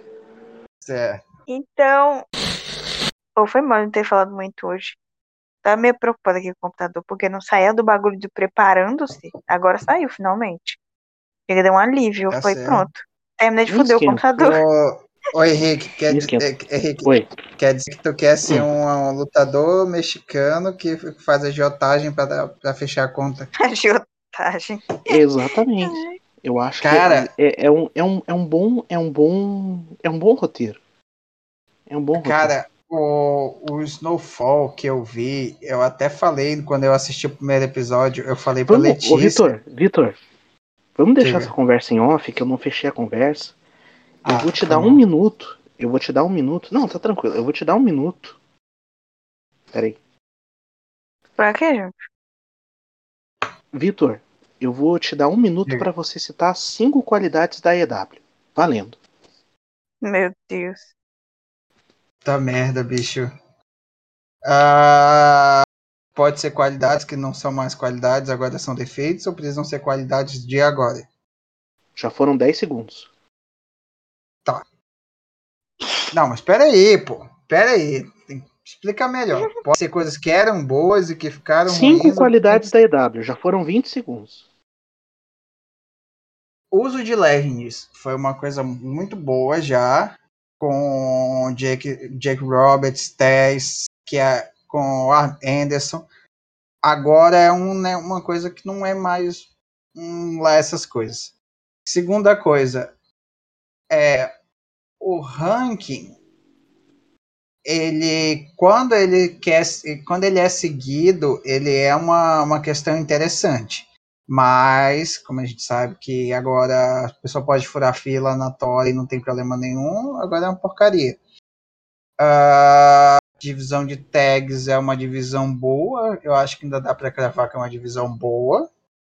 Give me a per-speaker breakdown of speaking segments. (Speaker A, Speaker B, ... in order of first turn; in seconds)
Speaker A: 0.8-1.2, 12.3-12.9, 14.4-23.5, 26.8-27.3, 32.2-39.5, 41.2-41.5, 44.2-45.0, 62.2-63.3, 64.4-71.0, 76.1-82.7, 86.7-96.0, 96.8-101.3, 101.8-102.9, 103.9-104.3, 105.0-106.1, 107.6-121.2, 122.2-128.6
Speaker B: 1.5-2.2, 3.4-5.0, 5.6-10.8, 11.5-14.6, 23.6-25.2, 51.4-52.0, 60.0-60.8
Speaker C: 13.7-14.3, 16.1-16.5, 17.0-17.3, 25.1-30.8, 31.9-32.6, 38.6-40.2, 41.0-43.5, 44.2-48.4, 49.7-50.0, 53.7-59.0, 71.9-73.1, 81.7-84.4